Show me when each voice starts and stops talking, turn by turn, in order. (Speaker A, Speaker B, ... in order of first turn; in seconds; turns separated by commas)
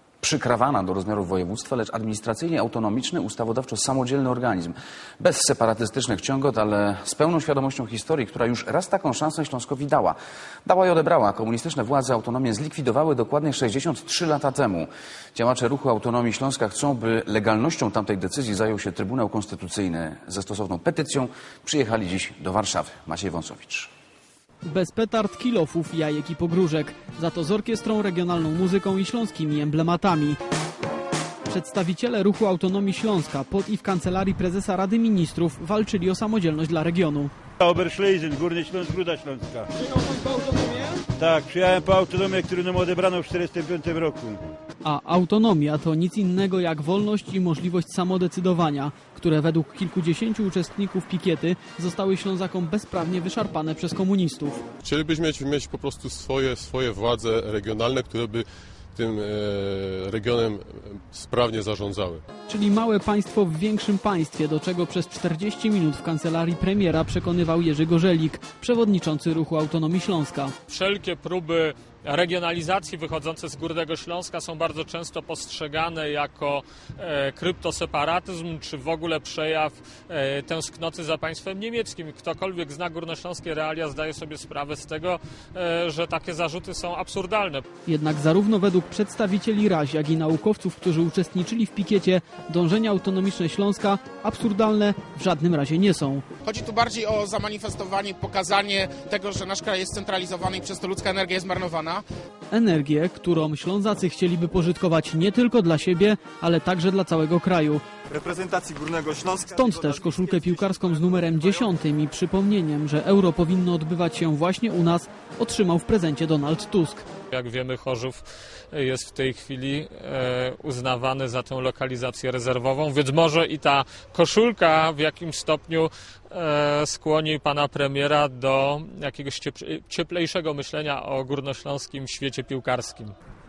Speaker A: 0.2-23.9, Speaker B: 24.7-30.4, Speaker B: 31.5-37.3, Speaker C: 37.6-39.7, Speaker C: 41.2-44.4, Speaker B: 44.8-54.6, Speaker D: 54.8-62.2, Speaker B: 62.5-70.5, Speaker E: 70.7-87.7, Speaker B: 87.8-96.2, Speaker F: 96.5-102.0, Speaker B: 102.5-107.8, Speaker G: 108.1-111.6, Speaker B: 109.5-117.0, Speaker E: 117.3-133.2